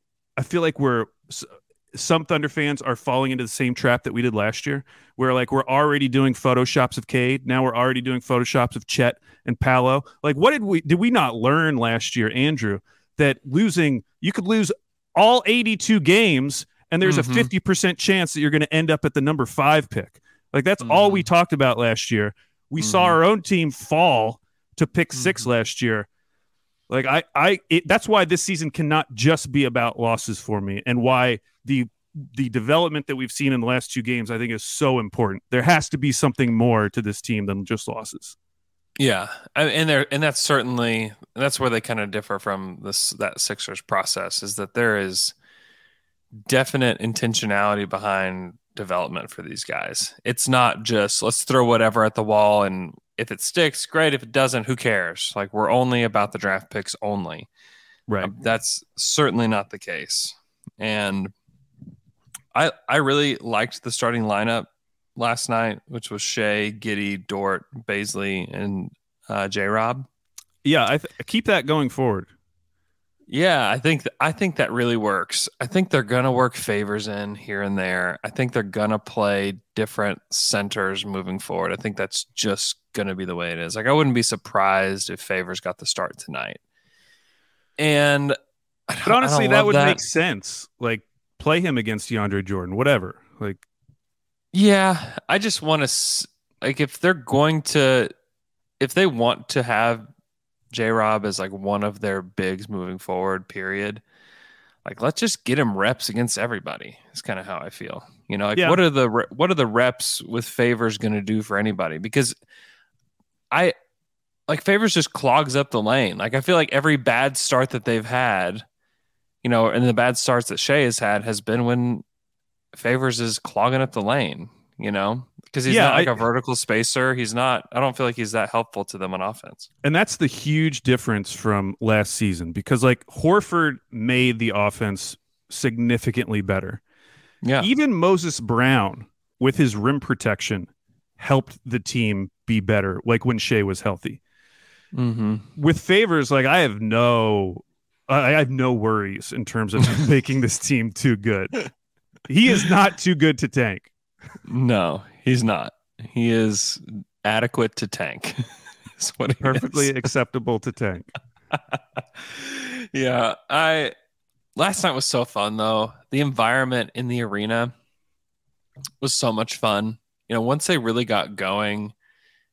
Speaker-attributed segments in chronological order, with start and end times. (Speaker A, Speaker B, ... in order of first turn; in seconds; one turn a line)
Speaker A: 0.4-26.1
Speaker B: 17.1-17.5
Speaker B: 20.8-21.3
Speaker B: 22.8-23.2
Speaker B: 25.1-25.5
Speaker A: 26.9-38.4
Speaker B: 39.0-45.3
Speaker B: 46.5-57.5
Speaker B: 58.2-61.3
Speaker B: 62.5-70.1
Speaker A: 70.6-72.3
Speaker B: 73.3-86.6
Speaker B: 87.8-88.4
Speaker B: 88.9-90.0
Speaker A: 89.1-93.6
Speaker B: 94.5-98.1
Speaker B: 98.8-100.1
Speaker B: 100.7-104.0
Speaker B: 104.8-112.3
Speaker B: 114.5-118.7
Speaker B: 119.4-122.0
Speaker B: 122.7-129.7
Speaker A: 125.7-126.2
Speaker A: 129.8-136.8
Speaker B: 137.4-137.7
Speaker A: 137.6-144.2
Speaker B: 144.9-145.5
Speaker A: 145.6-151.6
Speaker A: 152.3-153.9
Speaker B: 154.5-158.4
Speaker B: 159.0-160.1
Speaker A: 159.4-161.1
Speaker B: 162.3-163.9
Speaker B: 164.6-167.7
Speaker B: 169.0-171.9